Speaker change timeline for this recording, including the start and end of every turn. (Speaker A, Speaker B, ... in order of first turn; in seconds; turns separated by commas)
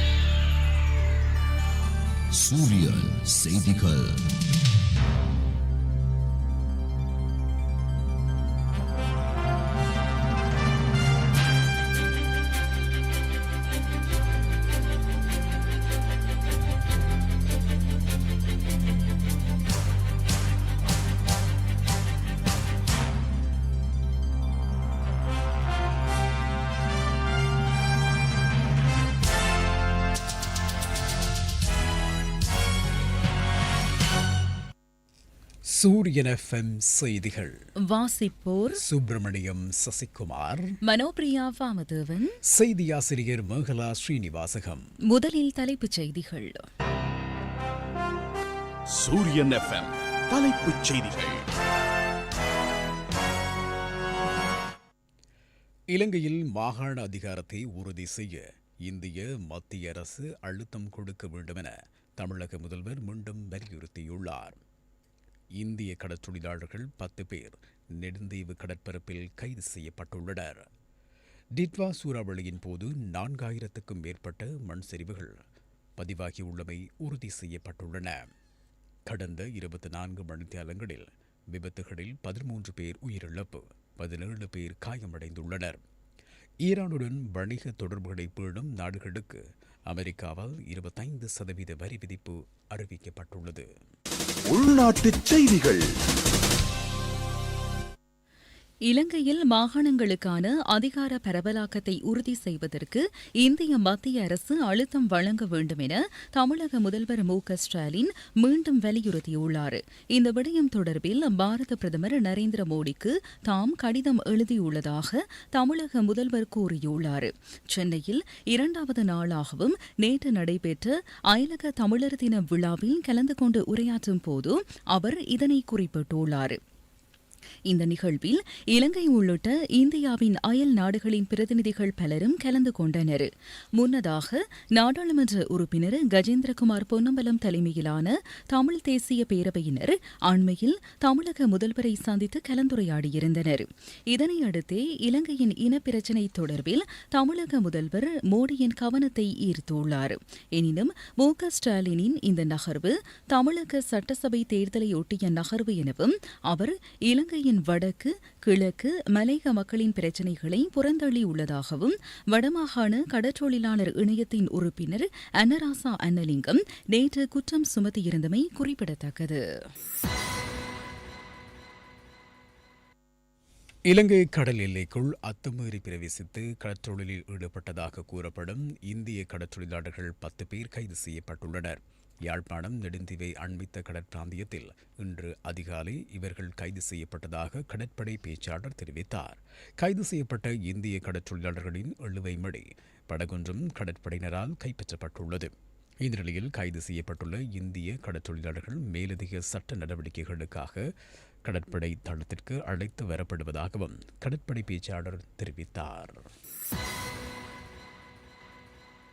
Speaker A: 2.3-4.3, Speaker B: 35.7-37.6, Speaker C: 37.9-38.8, Speaker B: 38.8-40.8, Speaker C: 40.8-42.4, Speaker B: 42.5-44.9, Speaker C: 45.1-46.6, Speaker D: 48.9-51.5, Speaker B: 55.9-64.6, Speaker B: 65.6-70.7, Speaker B: 71.5-75.3, Speaker B: 76.0-78.3, Speaker B: 79.1-85.8, Speaker B: 86.6-93.7, Speaker D: 94.5-95.8, Speaker C: 98.9-126.6, Speaker C: 127.7-169.4, Speaker B: 173.9-200.9, Speaker B: 201.4-206.3